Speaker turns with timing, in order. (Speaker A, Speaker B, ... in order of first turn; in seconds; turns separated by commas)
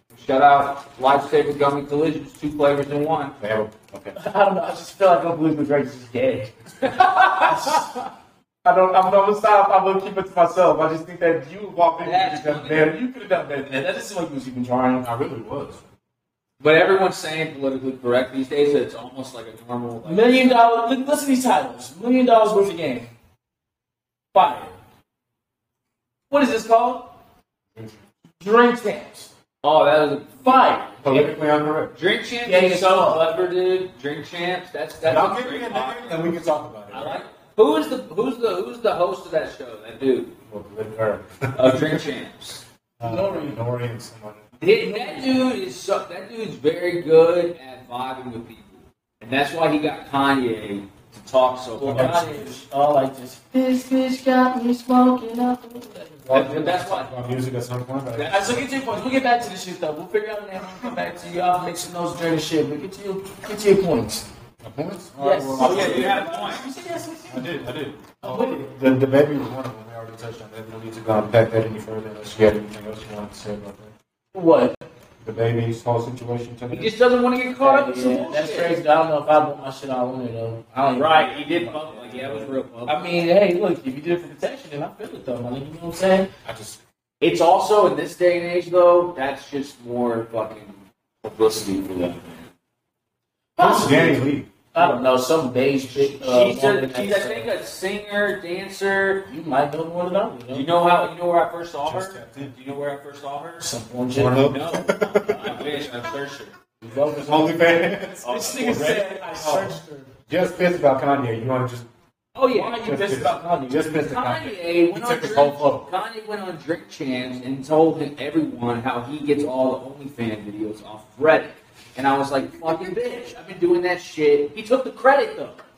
Speaker A: 0.1-3.4, Speaker B: 3.4-4.2, Speaker C: 4.2-8.0, Speaker A: 6.8-7.5, Speaker C: 8.6-15.1, Speaker B: 11.8-12.9, Speaker A: 12.0-12.9, Speaker B: 15.0-15.8, Speaker A: 16.6-20.6, Speaker C: 20.1-23.1, Speaker C: 24.3-24.8, Speaker C: 26.3-27.2, Speaker C: 28.4-29.3, Speaker A: 29.6-30.5, Speaker C: 30.4-31.3, Speaker B: 31.0-31.9, Speaker A: 31.9-36.2, Speaker C: 32.5-33.3, Speaker B: 35.0-37.2, Speaker A: 36.9-40.4, Speaker B: 40.5-42.0, Speaker A: 41.5-42.6, Speaker B: 43.0-44.4, Speaker C: 43.0-43.6, Speaker A: 44.6-52.2, Speaker C: 44.7-45.5, Speaker C: 51.8-57.0, Speaker B: 51.9-52.4, Speaker B: 56.3-58.7, Speaker A: 56.3-57.1, Speaker A: 58.1-58.4, Speaker C: 58.3-64.3, Speaker B: 64.6-66.6, Speaker C: 65.2-68.7, Speaker A: 65.6-66.6, Speaker B: 67.3-73.9, Speaker C: 74.3-74.8, Speaker B: 75.2-76.9, Speaker A: 76.7-78.8, Speaker C: 77.6-86.3, Speaker A: 81.0-83.2, Speaker B: 86.5-86.8, Speaker A: 87.2-92.5, Speaker C: 93.6-97.5, Speaker B: 93.6-94.5, Speaker A: 95.9-99.3, Speaker C: 99.3-100.7, Speaker A: 100.5-103.7, Speaker B: 101.9-102.5, Speaker C: 103.6-104.5, Speaker B: 104.1-105.8, Speaker A: 104.5-106.5, Speaker C: 105.3-105.9, Speaker C: 106.8-107.6, Speaker B: 107.0-111.9, Speaker C: 108.2-110.1, Speaker A: 108.2-109.0, Speaker A: 112.3-112.9, Speaker C: 112.5-114.0, Speaker B: 112.8-115.9, Speaker A: 114.0-125.6, Speaker B: 122.6-122.9